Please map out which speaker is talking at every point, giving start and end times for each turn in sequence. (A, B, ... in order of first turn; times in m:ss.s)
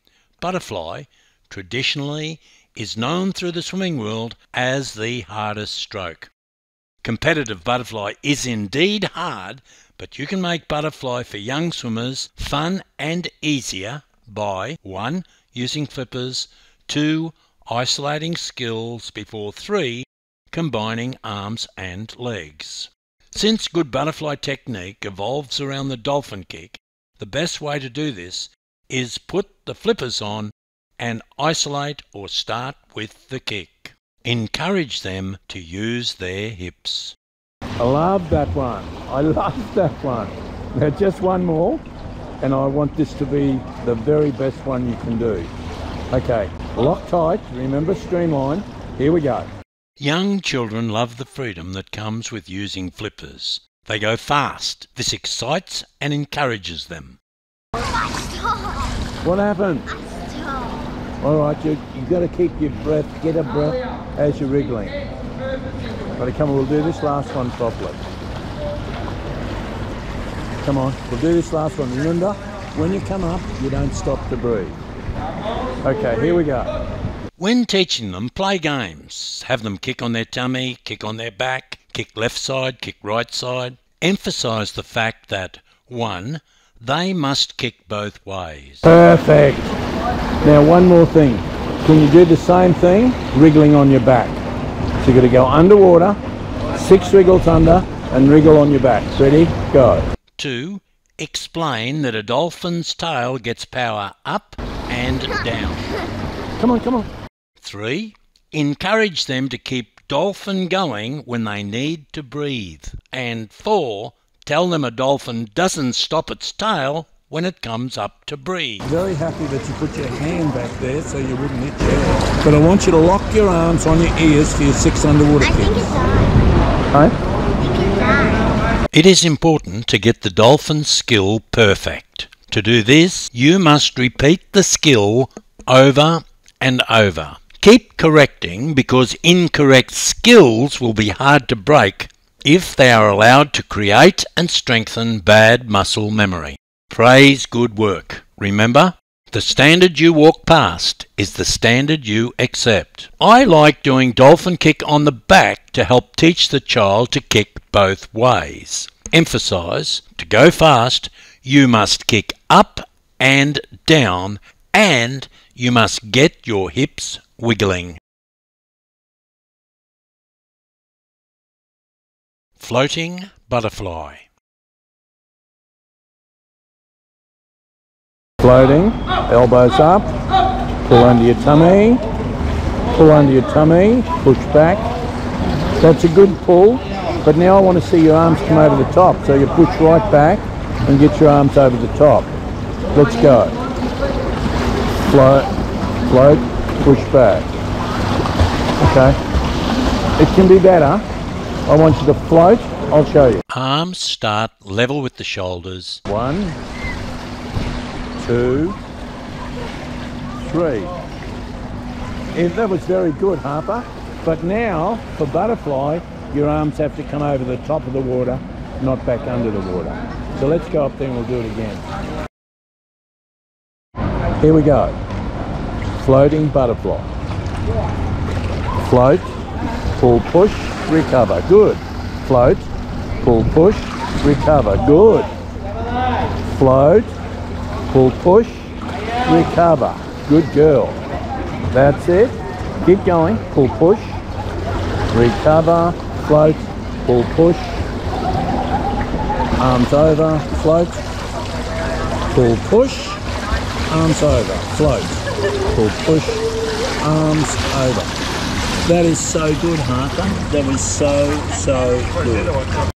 0:00.4-0:06.3 A
0:07.0-0:37.2 A
0:37.8-0:41.8 B
0:42.4-0:45.5 B
0:46.1-0:49.5 B
0:50.0-0:57.2 A
0:58.2-0:58.8 C
0:59.2-0:59.9 B
1:01.2-1:05.0 B
1:06.2-1:08.0 B
1:10.6-1:14.8 B
1:15.8-1:16.7 B
1:17.4-1:28.9 A
1:28.8-1:29.8 B
1:30.4-1:34.4 B
1:35.0-1:36.2 B
1:36.7-1:40.1 B
1:40.4-1:45.9 A
1:46.6-1:47.1 B
1:47.6-1:58.9 A
1:58.8-2:05.9 B
2:05.8-2:06.3 C
2:07.6-2:08.4 C
2:08.9-2:48.0 A
2:52.6-2:54.2 A
2:58.4-3:00.1 B
3:00.9-3:02.0 B
3:03.0-3:04.8 B
3:05.8-3:12.3 B
3:12.9-3:13.6 B
3:15.0-3:15.5 B
3:16.1-3:17.5 B
3:18.8-3:19.2 B
3:20.2-3:21.0 B
3:21.7-3:23.4 B
3:23.5-3:26.0 A
3:26.1-3:26.6 B
3:28.2-3:28.8 B
3:30.4-3:30.9 B
3:32.3-3:41.8 B
3:44.4-3:45.0 B
3:46.0-3:47.1 B
3:48.8-3:49.4 B
3:50.0-3:52.7 B
3:53.2-3:55.3 B
3:56.5-3:57.1 B
3:57.9-3:58.7 B
3:59.2-4:01.0 B
4:01.7-4:04.2 B
4:05.1-4:07.8 B
4:09.6-4:11.0 B
4:12.3-4:13.2 B
4:13.9-4:16.5 B
4:17.0-4:18.1 B
4:18.8-4:20.7 B
4:20.5-4:22.5 A